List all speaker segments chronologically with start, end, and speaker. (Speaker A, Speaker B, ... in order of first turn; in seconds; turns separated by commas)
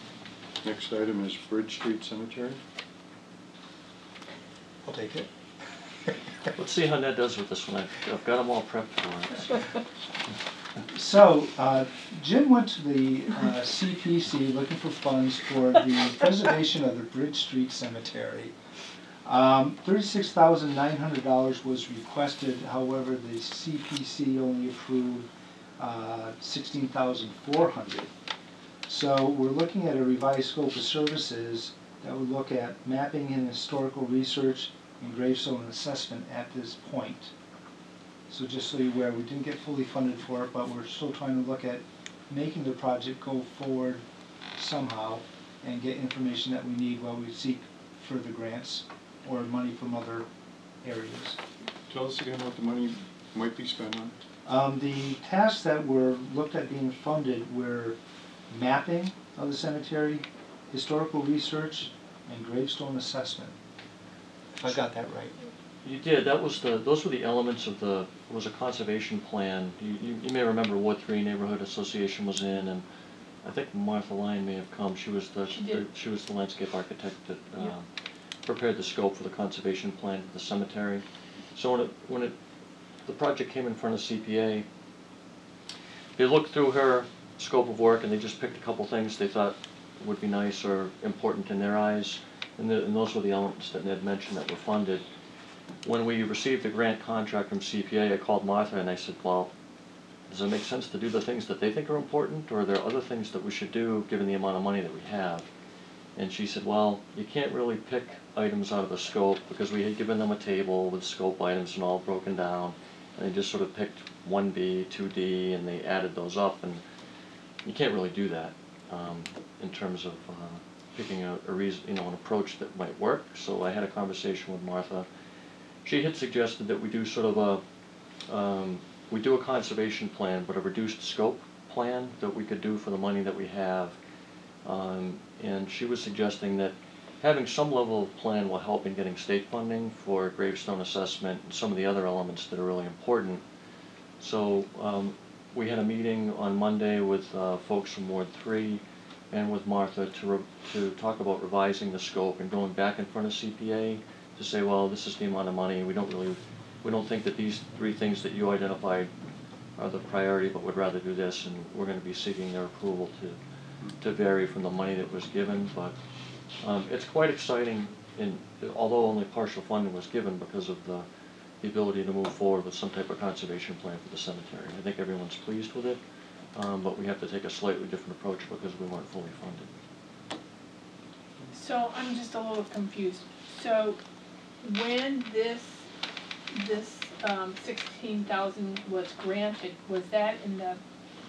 Speaker A: 0.6-2.6, Speaker B: 4.8-5.3, Speaker C: 6.6-9.6, Speaker B: 10.9-18.5, Speaker B: 19.2-28.1, Speaker B: 28.9-37.3, Speaker B: 38.3-44.0, Speaker B: 44.6-50.3, Speaker B: 50.8-51.4, Speaker A: 51.9-54.2, Speaker B: 54.4-58.0, Speaker B: 58.5-63.5, Speaker B: 64.5-65.3, Speaker C: 65.8-72.8, Speaker C: 73.4-77.9, Speaker D: 75.5-75.8, Speaker C: 78.4-81.0, Speaker C: 81.5-82.4, Speaker C: 83.0-84.7, Speaker C: 86.2-95.0, Speaker C: 95.8-99.5, Speaker C: 100.3-105.5, Speaker C: 106.2-116.8, Speaker C: 117.6-125.1, Speaker C: 125.8-127.6, Speaker C: 128.3-134.0, Speaker C: 134.6-143.4, Speaker C: 144.2-159.1, Speaker C: 159.8-163.4, Speaker C: 164.0-165.9, Speaker C: 166.6-171.1, Speaker C: 171.6-176.0, Speaker C: 176.5-179.7, Speaker D: 181.5-184.0, Speaker D: 184.6-185.9, Speaker D: 186.5-190.8